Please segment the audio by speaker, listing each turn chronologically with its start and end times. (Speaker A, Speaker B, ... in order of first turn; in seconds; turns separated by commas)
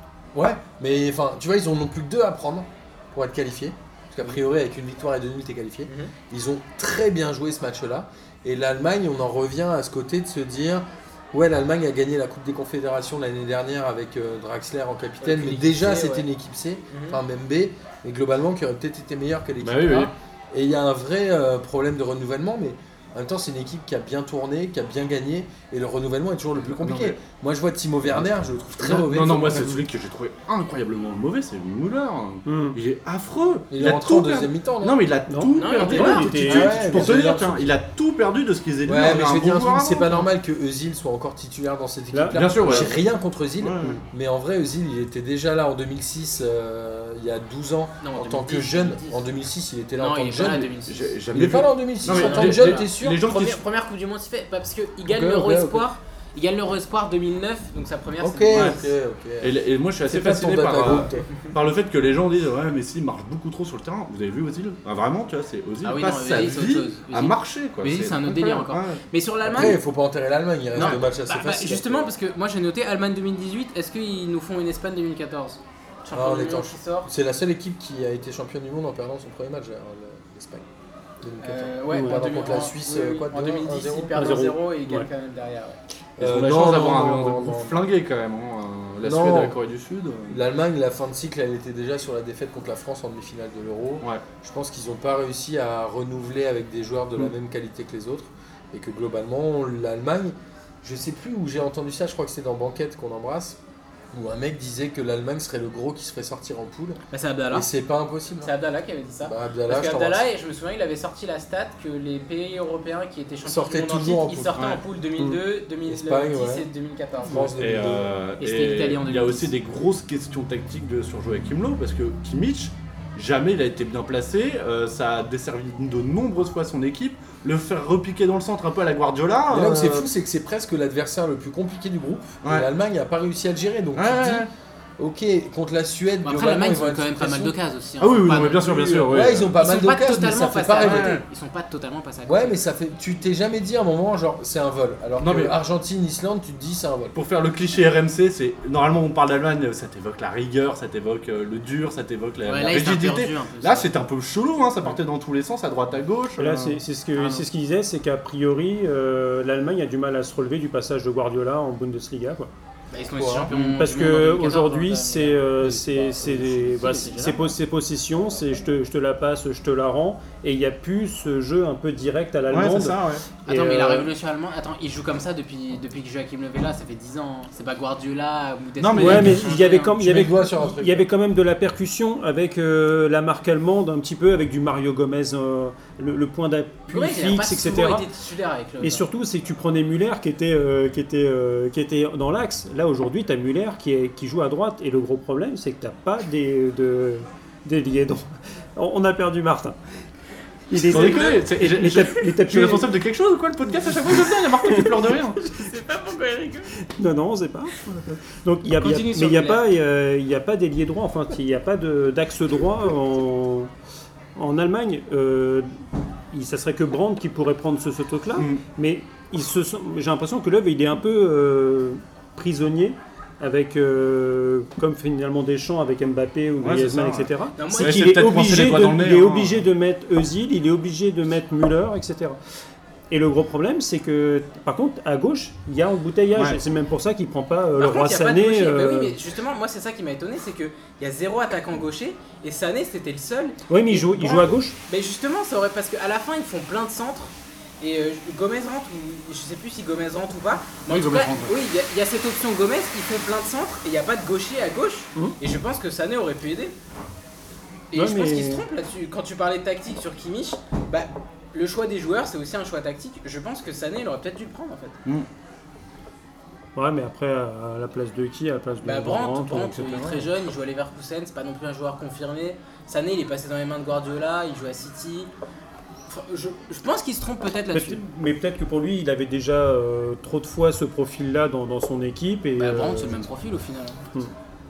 Speaker A: 0.3-29.8, Speaker B: 5.9-6.1, Speaker B: 15.2-16.3, Speaker B: 16.9-17.2, Speaker C: 19.6-20.1, Speaker C: 26.7-27.2, Speaker C: 28.8-40.3, Speaker D: 32.5-32.8, Speaker A: 33.7-35.0, Speaker D: 35.3-37.1, Speaker B: 35.5-36.4, Speaker A: 35.9-37.7, Speaker A: 38.9-50.7, Speaker D: 42.1-43.0, Speaker C: 42.3-43.0, Speaker C: 43.6-44.0, Speaker B: 48.0-49.2, Speaker B: 50.0-51.1, Speaker C: 50.8-53.6, Speaker A: 51.3-53.1, Speaker B: 52.0-58.8, Speaker A: 55.1-55.9, Speaker A: 58.2-59.5, Speaker C: 58.5-58.8, Speaker C: 59.4-69.0, Speaker A: 60.1-61.2, Speaker B: 65.8-69.8, Speaker A: 69.5-72.1, Speaker B: 70.7-77.1, Speaker C: 70.8-71.0, Speaker A: 76.1-80.7, Speaker A: 81.2-84.2, Speaker B: 81.4-85.8, Speaker D: 81.9-82.2, Speaker D: 84.1-85.1, Speaker A: 86.2-87.8, Speaker C: 86.2-90.4, Speaker A: 89.0-89.6, Speaker A: 90.3-103.6, Speaker A: 104.1-107.0, Speaker B: 107.1-107.7, Speaker A: 107.5-108.5, Speaker B: 108.4-117.5, Speaker A: 109.2-110.3, Speaker A: 113.5-114.6, Speaker A: 115.9-116.7, Speaker A: 117.2-118.2, Speaker C: 117.6-130.1, Speaker B: 118.4-119.5, Speaker A: 129.5-134.5, Speaker C: 132.4-132.7, Speaker C: 133.9-134.5, Speaker A: 135.0-137.5, Speaker B: 136.2-142.6, Speaker C: 138.0-139.6, Speaker A: 139.1-141.2, Speaker C: 140.8-141.2, Speaker A: 142.2-147.2, Speaker C: 145.2-145.5, Speaker C: 147.1-156.8, Speaker B: 152.5-153.9, Speaker D: 156.4-162.5, Speaker B: 157.2-157.4, Speaker B: 162.9-167.6, Speaker A: 163.2-163.5, Speaker D: 163.5-174.1, Speaker A: 165.6-166.5, Speaker C: 172.5-173.2, Speaker B: 173.5-179.9, Speaker C: 178.8-179.5, Speaker D: 179.0-188.1, Speaker A: 180.0-181.1, Speaker B: 186.9-189.1, Speaker D: 188.8-199.8, Speaker D: 200.7-202.9, Speaker B: 200.7-201.5, Speaker C: 200.8-205.4, Speaker B: 205.5-206.7, Speaker D: 206.9-213.7, Speaker B: 208.8-209.6, Speaker D: 214.4-215.7, Speaker D: 216.3-232.4, Speaker C: 218.4-218.6, Speaker C: 226.6-229.7, Speaker B: 227.6-228.1, Speaker D: 233.1-239.2, Speaker B: 237.8-256.7, Speaker D: 243.7-244.8, Speaker C: 250.9-251.5, Speaker B: 257.9-265.0, Speaker D: 257.9-258.6, Speaker D: 266.8-270.2, Speaker B: 268.8-275.3, Speaker B: 276.1-278.0, Speaker D: 277.7-283.3, Speaker B: 282.6-284.0